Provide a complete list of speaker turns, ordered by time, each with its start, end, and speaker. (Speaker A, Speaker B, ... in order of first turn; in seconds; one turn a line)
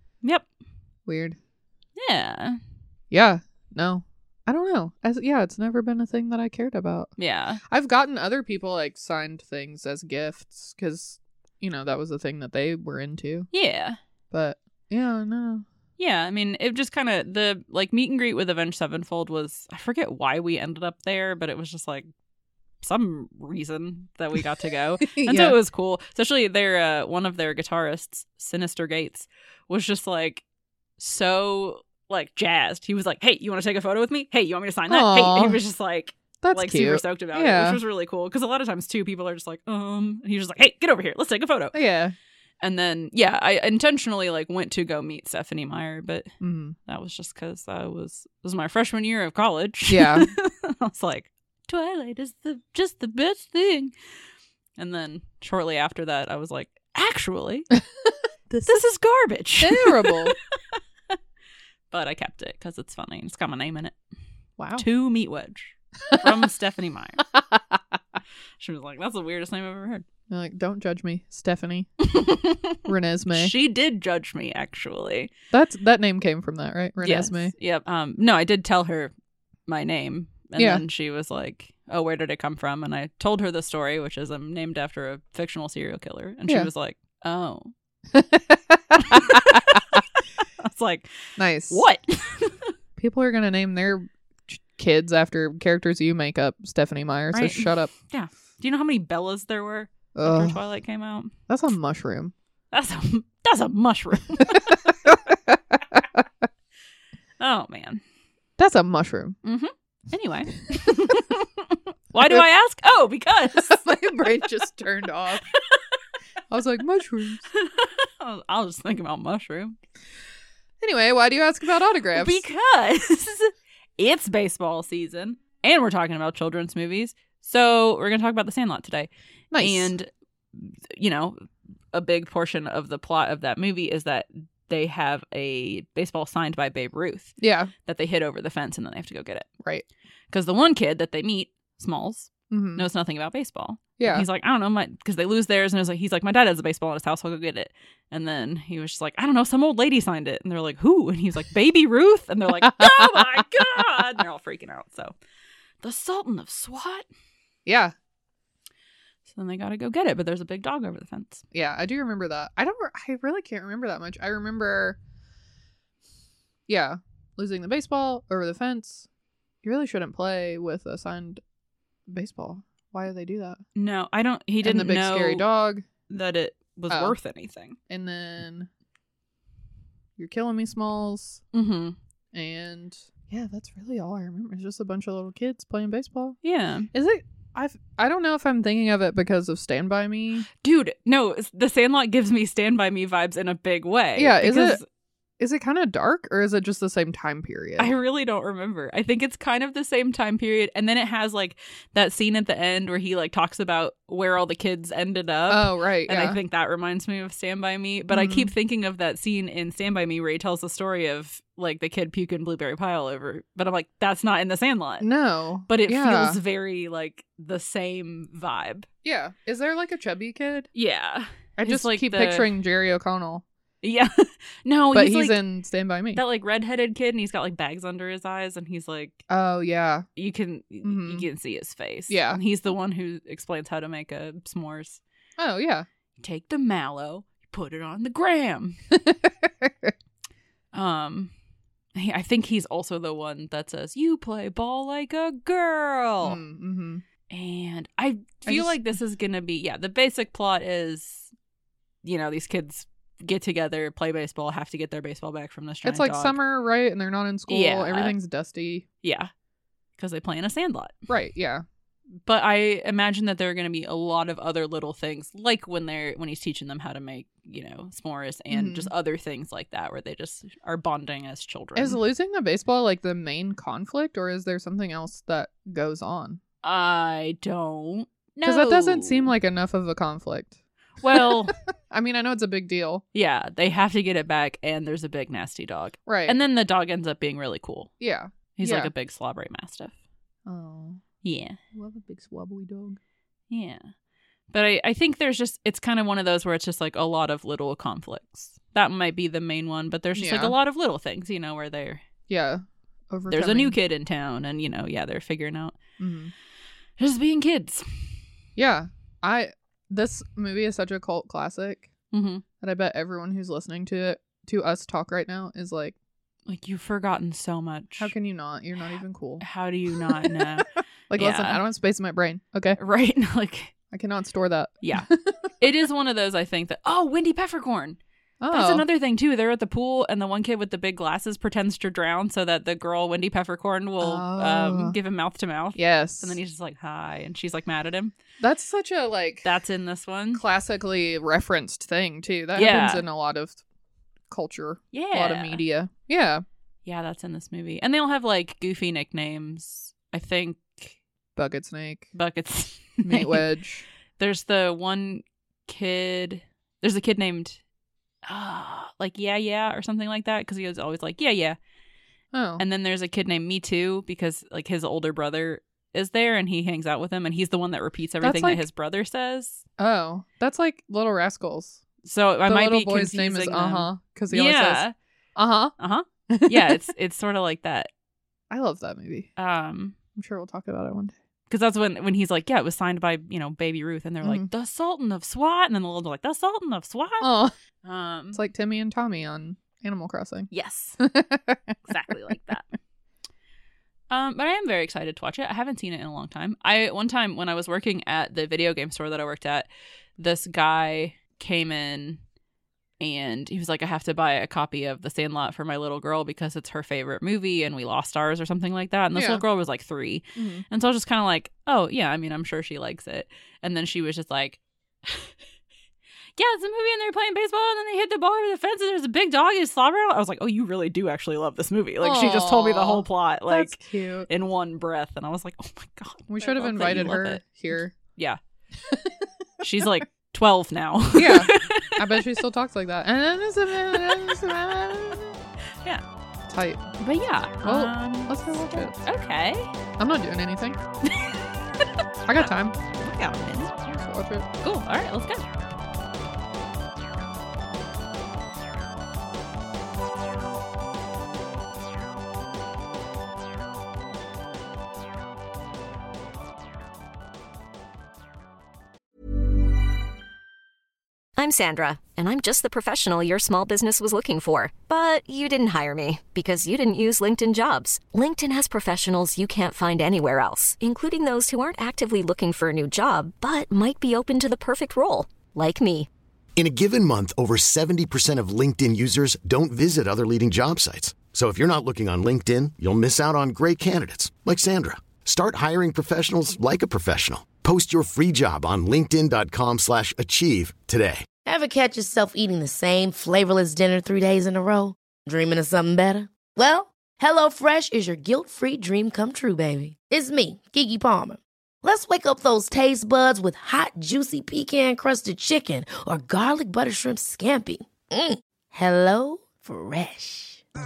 Speaker A: 1.1-1.4
Speaker B: 2.0-2.6
Speaker A: 3.1-7.1
Speaker B: 7.2-7.6
Speaker A: 7.6-13.5
Speaker B: 13.5-14.0
Speaker A: 14.3-15.6
Speaker B: 16.0-22.1
Speaker B: 22.8-30.4
Speaker A: 25.0-25.5
Speaker B: 31.0-41.8
Speaker A: 34.9-35.6
Speaker A: 36.4-37.8
Speaker A: 41.7-42.1
Speaker B: 42.6-46.4
Speaker A: 46.4-46.8
Speaker B: 46.9-53.9
Speaker A: 49.9-50.3
Speaker B: 54.8-57.7
Speaker A: 58.5-58.8
Speaker B: 58.6-60.3
Speaker A: 59.6-60.3
Speaker B: 61.9-63.9
Speaker A: 64.6-64.8
Speaker B: 64.8-67.2
Speaker B: 68.6-70.0
Speaker A: 70.3-71.9
Speaker B: 72.0-75.3
Speaker A: 72.8-73.5
Speaker A: 75.5-77.5
Speaker B: 77.0-79.1
Speaker B: 79.7-87.7
Speaker A: 80.6-80.8
Speaker A: 88.1-89.8
Speaker B: 89.0-90.0
Speaker B: 90.6-92.7
Speaker A: 91.4-91.8
Speaker A: 93.0-97.9
Speaker B: 97.3-101.3
Speaker A: 100.1-100.6
Speaker A: 101.5-102.3
Speaker B: 102.7-104.8
Speaker A: 104.4-106.2
Speaker B: 107.4-108.0
Speaker A: 108.6-109.4
Speaker B: 109.4-113.8
Speaker A: 113.5-115.4
Speaker A: 116.5-117.5
Speaker B: 117.5-119.8
Speaker A: 120.8-122.4
Speaker B: 122.1-139.5
Speaker A: 129.5-129.9
Speaker A: 137.4-137.7
Speaker B: 140.3-155.2
Speaker A: 142.5-142.8
Speaker A: 144.0-144.2
Speaker A: 152.8-153.2
Speaker B: 155.8-157.1
Speaker A: 157.7-157.9
Speaker B: 159.2-161.4
Speaker A: 161.5-165.0
Speaker A: 166.7-169.1
Speaker A: 169.6-171.4
Speaker A: 172.1-173.6
Speaker B: 173.7-175.4
Speaker A: 174.6-175.8
Speaker B: 176.1-177.8
Speaker A: 176.9-177.2
Speaker A: 177.9-178.7
Speaker A: 180.2-181.4
Speaker B: 181.5-181.9
Speaker A: 182.3-186.4
Speaker B: 186.4-186.9
Speaker A: 186.9-190.5
Speaker B: 190.5-194.8
Speaker A: 194.2-194.8
Speaker A: 195.4-197.9
Speaker B: 197.8-215.1
Speaker A: 205.5-206.4
Speaker A: 208.1-208.5
Speaker A: 215.0-216.4
Speaker B: 215.7-218.9
Speaker A: 219.0-220.7
Speaker B: 220.7-222.5
Speaker A: 221.6-223.4
Speaker B: 223.8-225.4
Speaker A: 224.9-226.2
Speaker B: 226.1-229.2
Speaker A: 229.3-230.1
Speaker B: 230.2-235.0
Speaker A: 230.8-231.2
Speaker A: 232.1-232.4
Speaker A: 235.4-235.8
Speaker B: 236.2-238.8
Speaker A: 239.1-239.9
Speaker B: 240.7-241.3
Speaker B: 241.9-246.4
Speaker A: 246.2-247.0
Speaker B: 247.3-251.3
Speaker A: 248.5-248.8
Speaker B: 252.0-256.4
Speaker A: 255.8-258.9
Speaker B: 257.5-258.1
Speaker B: 259.0-259.3
Speaker B: 260.0-260.9
Speaker A: 261.1-261.6
Speaker B: 262.2-272.0
Speaker A: 268.5-268.9
Speaker A: 271.8-276.4
Speaker B: 276.6-279.3
Speaker A: 278.4-280.5
Speaker B: 281.0-281.5
Speaker A: 281.1-283.0
Speaker B: 283.1-287.9
Speaker A: 286.1-286.4
Speaker A: 288.0-288.9
Speaker B: 288.6-289.9
Speaker A: 290.4-291.0
Speaker B: 291.2-291.6
Speaker A: 291.7-293.0
Speaker B: 293.5-293.9
Speaker B: 294.5-302.0
Speaker A: 300.1-300.5
Speaker A: 302.3-303.7
Speaker B: 303.3-305.8
Speaker A: 306.0-306.3
Speaker B: 307.0-307.8
Speaker A: 308.6-311.9
Speaker B: 312.1-312.4
Speaker A: 312.6-315.9
Speaker B: 316.5-318.1
Speaker A: 318.0-319.4
Speaker B: 319.4-321.6
Speaker A: 320.0-322.8
Speaker B: 322.8-323.7
Speaker A: 323.9-325.5
Speaker B: 324.8-325.1
Speaker B: 325.6-328.0
Speaker A: 328.4-328.8
Speaker B: 328.5-338.1
Speaker A: 334.0-334.9
Speaker A: 335.7-336.4
Speaker A: 338.4-339.5
Speaker B: 339.4-340.4
Speaker A: 340.3-343.6
Speaker B: 342.5-343.0
Speaker A: 344.3-346.4
Speaker B: 344.9-345.6
Speaker B: 346.8-350.9
Speaker A: 351.4-352.1
Speaker B: 352.1-353.4
Speaker A: 353.0-353.8
Speaker B: 354.2-357.6
Speaker B: 358.2-361.6
Speaker A: 362.3-362.6
Speaker B: 362.6-369.6
Speaker A: 368.2-368.6
Speaker A: 369.8-371.8
Speaker B: 372.0-374.9
Speaker A: 372.4-374.8
Speaker A: 375.4-375.7
Speaker B: 375.8-377.9
Speaker A: 376.3-376.7
Speaker A: 378.5-379.3
Speaker B: 379.4-379.9
Speaker A: 380.1-381.1
Speaker B: 381.5-387.3
Speaker A: 384.2-384.5
Speaker A: 387.2-387.5
Speaker B: 387.8-388.4
Speaker A: 388.3-390.5
Speaker B: 390.5-391.0
Speaker A: 391.0-391.8
Speaker B: 391.9-392.7
Speaker B: 394.1-402.2
Speaker B: 403.0-415.3
Speaker A: 409.1-409.4
Speaker A: 410.4-410.6
Speaker B: 416.4-427.4
Speaker A: 422.0-424.3
Speaker A: 426.3-427.9
Speaker B: 428.1-428.4
Speaker A: 428.9-429.1
Speaker B: 429.6-432.2
Speaker A: 431.1-435.4
Speaker B: 434.0-434.5
Speaker A: 436.5-436.9
Speaker B: 437.0-439.7
Speaker A: 437.6-439.0
Speaker A: 440.0-440.8
Speaker B: 441.1-441.9
Speaker A: 442.2-442.7
Speaker B: 442.4-443.7
Speaker A: 443.8-444.5
Speaker B: 444.6-445.4
Speaker C: 461.4-476.1
Speaker D: 476.6-491.2
Speaker E: 491.4-510.6